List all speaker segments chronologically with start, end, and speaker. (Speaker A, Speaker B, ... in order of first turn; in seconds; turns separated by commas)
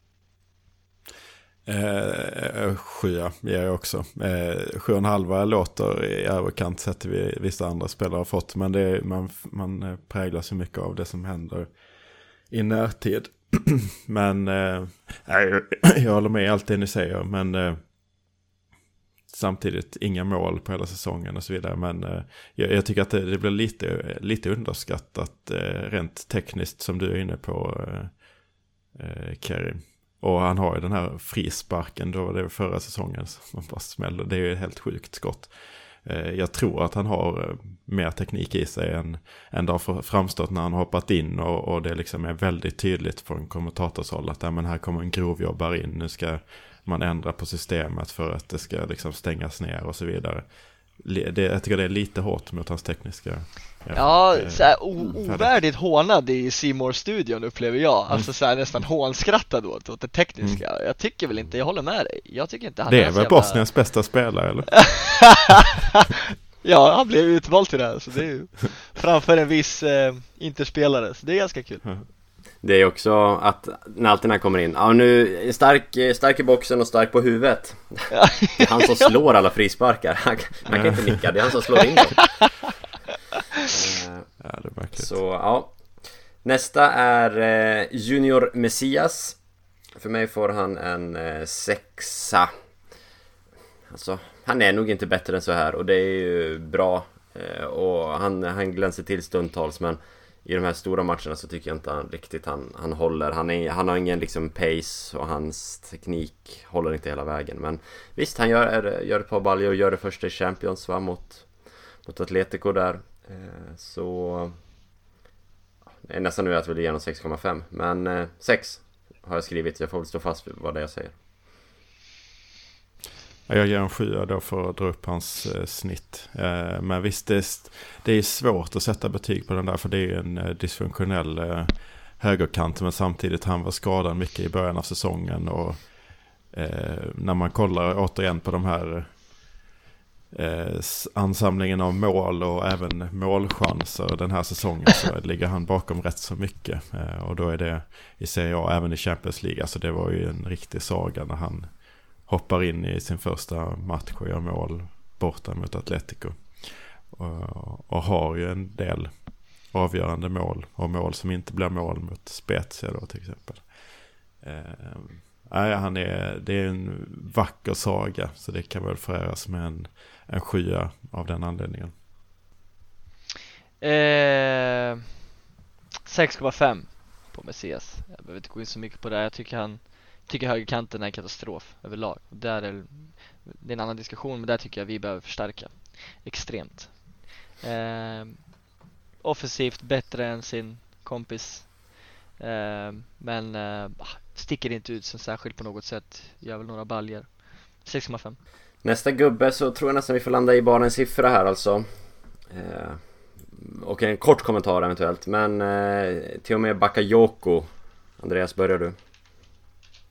Speaker A: 1.7-11.8, Speaker A: 12.5-17.9, Speaker A: 19.3-28.3, Speaker A: 28.9-55.5, Speaker B: 53.9-63.9, Speaker A: 62.9-65.4, Speaker B: 64.9-65.8, Speaker B: 66.6-72.0, Speaker C: 72.6-82.3, Speaker B: 78.2-78.7, Speaker A: 80.7-81.2, Speaker C: 83.7-84.4, Speaker A: 84.4-85.1, Speaker C: 85.0-85.8, Speaker C: 86.4-89.4, Speaker C: 90.0-92.5, Speaker C: 93.9-111.5, Speaker C: 112.0-114.6, Speaker C: 116.0-121.2, Speaker A: 123.5-139.4, Speaker A: 140.3-171.9, Speaker B: 173.8-175.1, Speaker B: 176.1-188.6, Speaker B: 189.2-198.4, Speaker C: 198.8-201.9, Speaker C: 202.5-209.0